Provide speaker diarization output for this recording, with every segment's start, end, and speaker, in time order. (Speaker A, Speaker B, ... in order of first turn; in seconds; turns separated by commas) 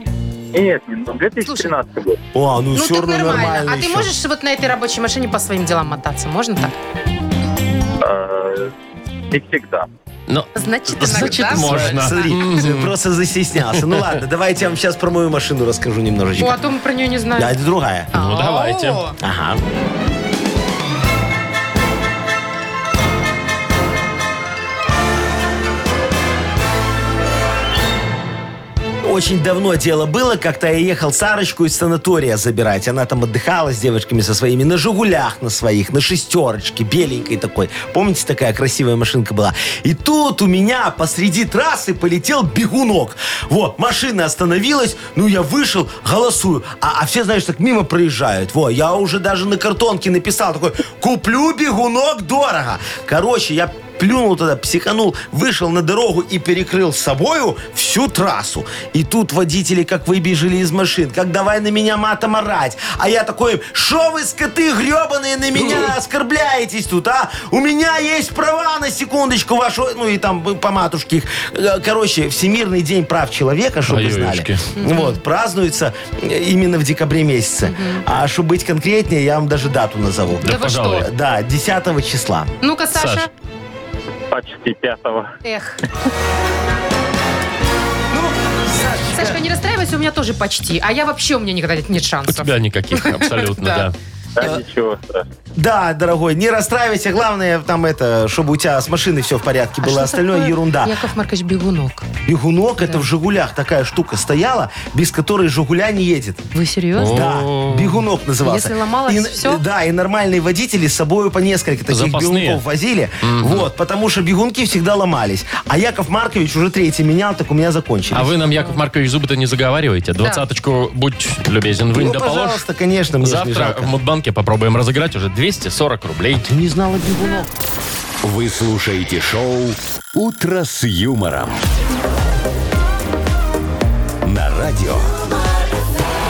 Speaker A: 0.5-2.2, Speaker B: 1.4-1.7, Speaker C: 2.3-4.1, Speaker B: 2.8-6.7, Speaker A: 8.0-8.7, Speaker A: 9.3-9.9, Speaker D: 10.3-12.9, Speaker B: 10.6-12.4, Speaker C: 11.4-16.6, Speaker D: 13.7-14.1, Speaker B: 16.4-17.6, Speaker C: 17.4-18.1, Speaker B: 18.1-19.2, Speaker D: 18.1-19.0, Speaker C: 19.2-19.6, Speaker C: 29.0-82.5, Speaker D: 65.6-65.9, Speaker D: 73.9-74.6, Speaker B: 74.8-75.2, Speaker B: 77.6-78.0, Speaker D: 80.4-81.1, Speaker B: 80.4-81.1, Speaker B: 82.6-83.3, Speaker D: 82.9-83.3, Speaker A: 84.3-85.3, Speaker B: 85.4-85.8, Speaker C: 88.1-89.4, Speaker B: 89.1-93.9, Speaker D: 92.3-93.9, Speaker A: 94.4-95.3, Speaker C: 95.6-101.0, Speaker B: 99.8-102.1, Speaker C: 102.3-106.4, Speaker B: 106.5-107.3, Speaker D: 107.0-108.0, Speaker C: 107.1-118.3, Speaker B: 108.4-109.6, Speaker D: 111.9-112.6, Speaker D: 113.2-113.7, Speaker D: 118.1-122.6, Speaker C: 121.9-124.0, Speaker D: 123.2-126.5, Speaker C: 126.4-127.5, Speaker E: 128.2-131.6, Speaker E: 134.2-135.2